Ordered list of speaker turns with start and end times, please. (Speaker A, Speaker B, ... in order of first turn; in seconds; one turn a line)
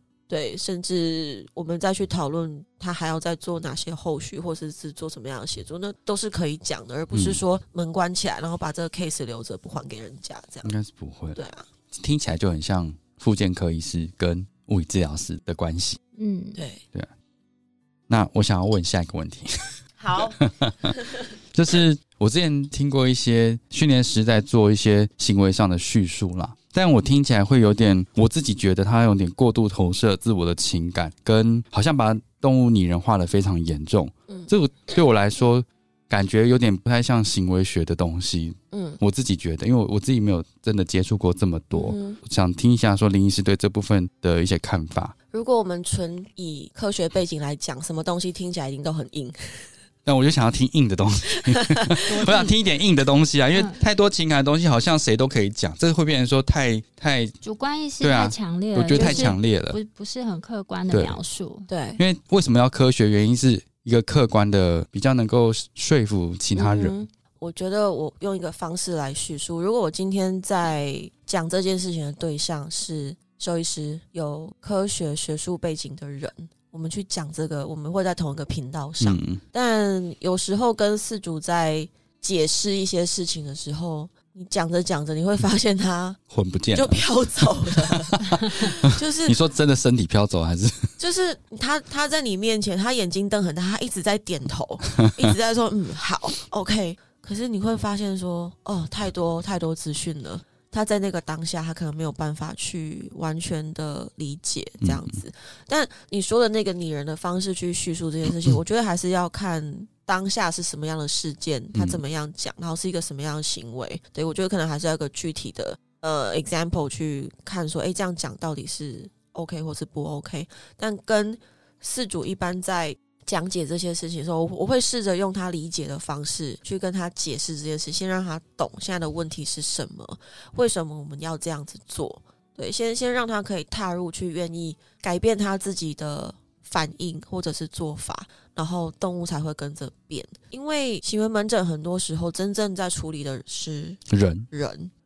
Speaker A: 0.3-10.7
Speaker B: 7.1-7.4
Speaker B: 10.6-16.0
Speaker A: 11.3-11.7
Speaker C: 16.2-16.6
Speaker A: 16.6-16.8
Speaker B: 18.1-20.9
Speaker A: 20.0-21.2
Speaker B: 21.5-45.1
Speaker A: 38.7-39.0
Speaker A: 41.7-42.2
Speaker A: 45.3-49.7
Speaker B: 50.0-57.3
Speaker A: 51.5-51.9
Speaker C: 52.0-52.5
Speaker C: 53.5-53.8
Speaker C: 57.4-61.7
Speaker B: 58.0-59.8
Speaker A: 58.9-59.3
Speaker B: 60.9-61.2
Speaker A: 61.7-62.0
Speaker B: 62.0-67.0
Speaker A: 66.5-86.2
Speaker B: 79.0-79.4
Speaker B: 86.3-87.0
Speaker A: 86.7-89.4
Speaker B: 87.7-90.9
Speaker A: 91.0-144.9
Speaker B: 104.8-105.2
Speaker B: 111.7-112.0
Speaker B: 144.1-144.5